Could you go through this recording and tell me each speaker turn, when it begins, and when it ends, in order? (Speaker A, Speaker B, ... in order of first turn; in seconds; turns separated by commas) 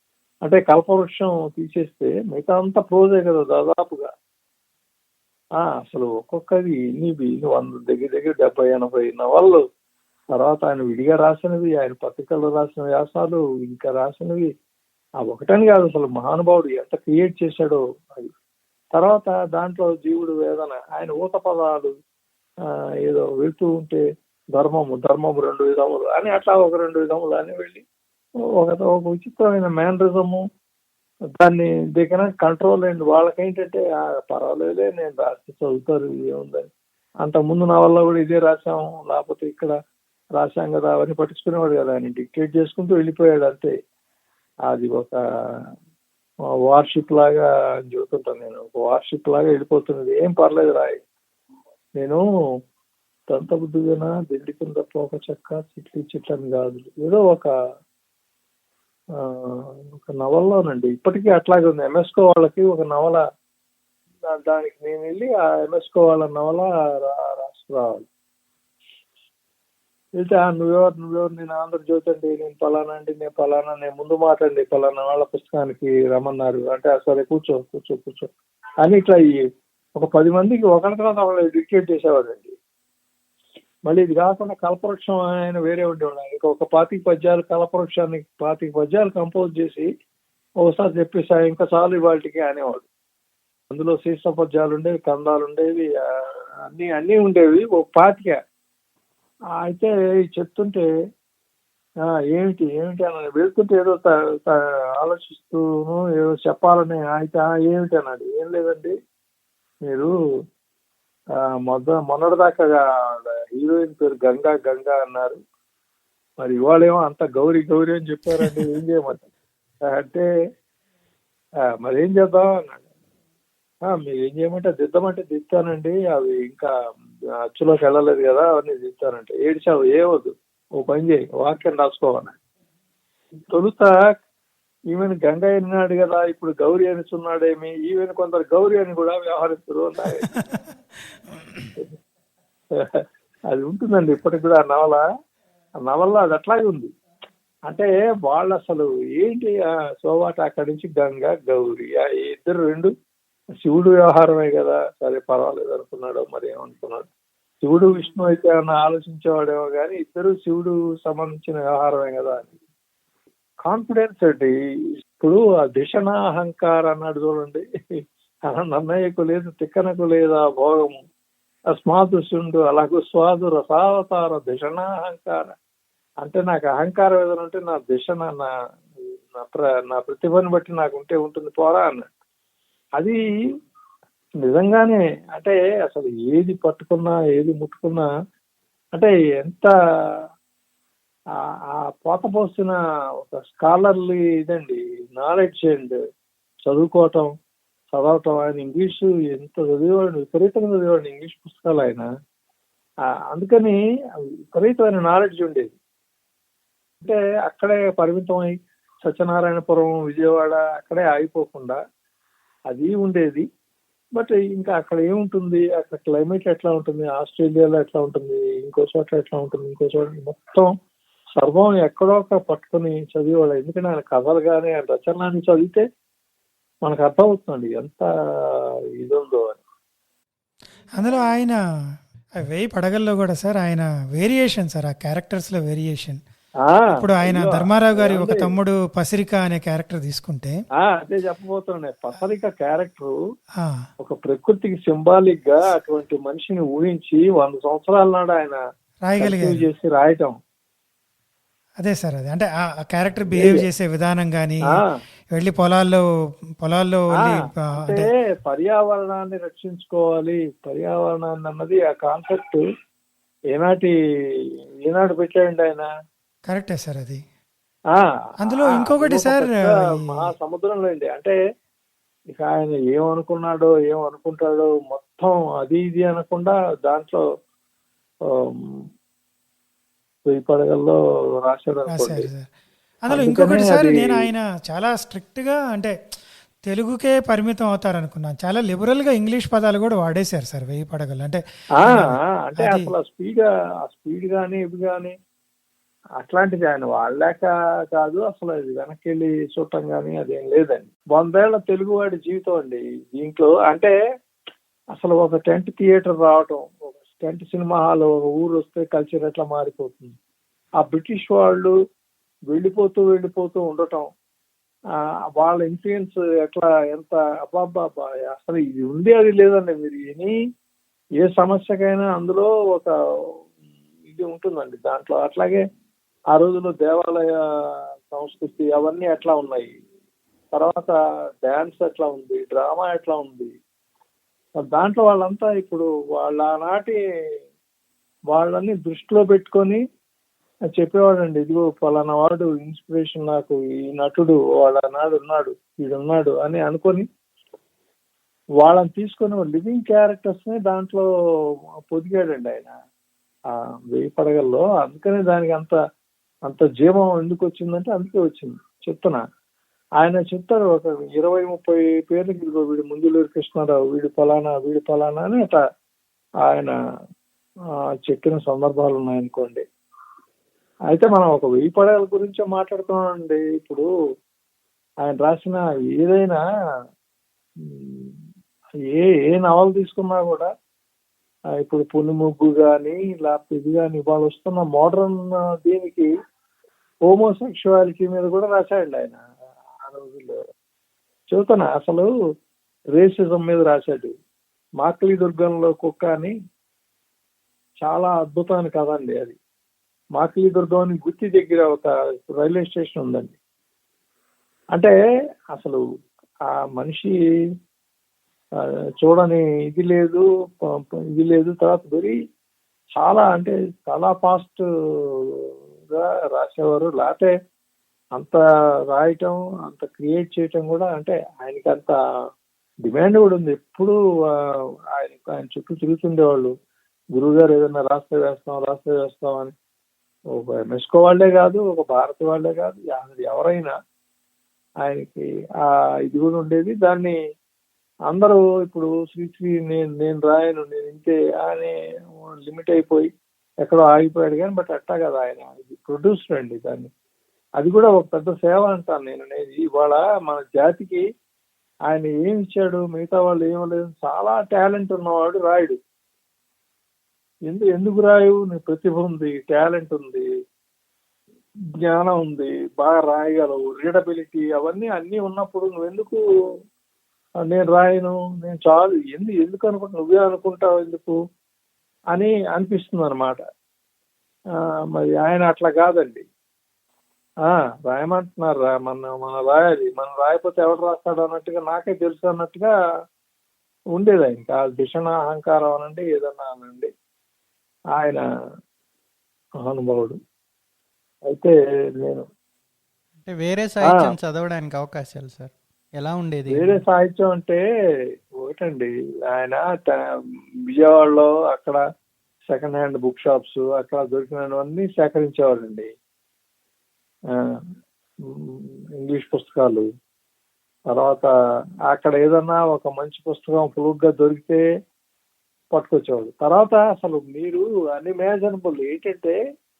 Speaker A: 0.5-4.1, Speaker A: 5.6-9.6, Speaker A: 10.3-14.5, Speaker A: 15.2-18.3, Speaker A: 18.9-21.9, Speaker A: 23.1-24.0, Speaker A: 24.6-27.8, Speaker A: 28.6-30.4, Speaker A: 31.4-36.7, Speaker A: 37.2-39.7, Speaker A: 40.4-43.7, Speaker A: 44.7-45.2, Speaker A: 46.7-51.0, Speaker A: 53.3-57.5, Speaker A: 59.4-63.2, Speaker A: 64.3-68.0, Speaker A: 70.2-78.3, Speaker A: 78.8-79.4, Speaker A: 80.0-82.5, Speaker A: 83.9-89.9, Speaker A: 90.6-92.9, Speaker A: 93.7-95.9, Speaker A: 96.7-98.4, Speaker A: 99.6-100.8, Speaker A: 102.3-108.9, Speaker A: 109.9-110.1, Speaker A: 111.7-115.4, Speaker A: 116.4-119.2, Speaker B: 118.4-118.6, Speaker A: 119.9-120.2, Speaker A: 121.8-122.8, Speaker A: 123.8-126.7, Speaker A: 127.6-132.3, Speaker A: 133.5-133.9, Speaker A: 134.9-140.3, Speaker A: 142.8-145.0, Speaker A: 145.8-146.9, Speaker A: 147.7-152.9, Speaker A: 153.6-157.1, Speaker A: 157.6-162.5, Speaker A: 163.6-164.5, Speaker A: 165.2-167.6, Speaker A: 168.5-171.0, Speaker A: 171.7-175.5, Speaker A: 176.2-178.5, Speaker A: 179.3-182.1, Speaker A: 184.4-188.1, Speaker A: 188.9-189.7, Speaker A: 191.9-196.0, Speaker A: 196.7-197.3, Speaker A: 197.9-202.1, Speaker A: 203.3-203.8, Speaker A: 204.5-205.7, Speaker A: 207.0-208.5, Speaker A: 209.0-211.8, Speaker A: 212.7-213.4, Speaker A: 214.2-220.7, Speaker A: 221.4-225.8, Speaker A: 226.8-228.1, Speaker A: 229.0-229.6, Speaker B: 231.0-231.6, Speaker B: 232.4-236.2, Speaker A: 236.6-238.5, Speaker B: 236.9-240.6, Speaker A: 240.8-243.1, Speaker A: 244.0-248.6, Speaker B: 249.0-249.6, Speaker A: 249.2-250.3, Speaker B: 251.8-254.7, Speaker A: 253.3-253.7, Speaker B: 255.3-256.0, Speaker B: 256.6-258.1, Speaker A: 257.2-262.6, Speaker A: 263.5-263.9, Speaker A: 264.9-265.9, Speaker B: 266.4-267.2, Speaker A: 267.9-271.4, Speaker B: 268.4-270.3, Speaker A: 272.4-277.2, Speaker A: 280.3-282.3, Speaker B: 281.9-282.5, Speaker B: 283.0-285.9, Speaker A: 283.1-284.3, Speaker B: 286.7-292.9, Speaker A: 291.8-295.1, Speaker A: 296.2-303.9, Speaker A: 304.9-310.1, Speaker A: 310.8-311.7, Speaker A: 312.5-314.1, Speaker A: 315.4-320.3, Speaker A: 321.2-322.9, Speaker A: 324.1-325.6, Speaker A: 326.3-327.4, Speaker A: 328.1-329.7, Speaker A: 330.5-333.5, Speaker A: 334.6-337.0, Speaker A: 338.3-339.8, Speaker A: 340.7-347.0, Speaker A: 348.6-351.1, Speaker A: 351.9-352.7, Speaker A: 353.9-355.8, Speaker A: 356.5-359.2, Speaker A: 360.0-365.6, Speaker A: 366.5-366.7, Speaker A: 368.1-369.6, Speaker A: 370.9-373.9, Speaker A: 375.0-376.4, Speaker A: 377.7-378.1, Speaker A: 378.9-380.5, Speaker A: 381.6-386.1, Speaker A: 387.1-389.2, Speaker A: 389.8-390.4, Speaker A: 391.3-392.1, Speaker A: 392.9-394.1, Speaker A: 394.8-396.3, Speaker A: 397.8-399.4, Speaker A: 400.2-403.4, Speaker A: 405.5-405.8, Speaker A: 406.7-407.1, Speaker A: 409.0-410.2, Speaker A: 411.2-412.1, Speaker A: 413.0-414.6, Speaker A: 415.9-417.3, Speaker A: 418.9-421.9, Speaker A: 422.9-423.9, Speaker A: 425.0-426.5, Speaker A: 427.2-429.5, Speaker A: 430.4-433.7, Speaker A: 434.8-437.1, Speaker A: 438.1-443.1, Speaker A: 443.6-446.9, Speaker A: 447.6-451.0, Speaker A: 451.9-455.8, Speaker A: 457.5-460.2, Speaker A: 461.9-466.2, Speaker A: 467.5-471.1, Speaker A: 472.1-473.4, Speaker A: 474.9-476.2, Speaker A: 477.5-482.7, Speaker A: 483.9-486.9, Speaker A: 488.0-488.2, Speaker A: 489.6-490.2, Speaker A: 491.3-492.2, Speaker C: 493.2-496.8, Speaker A: 493.9-494.1, Speaker A: 496.5-497.6, Speaker A: 498.4-500.0, Speaker A: 500.7-501.8, Speaker A: 502.5-505.9, Speaker A: 508.4-509.9, Speaker A: 510.9-511.3, Speaker A: 511.9-514.6, Speaker A: 515.7-519.4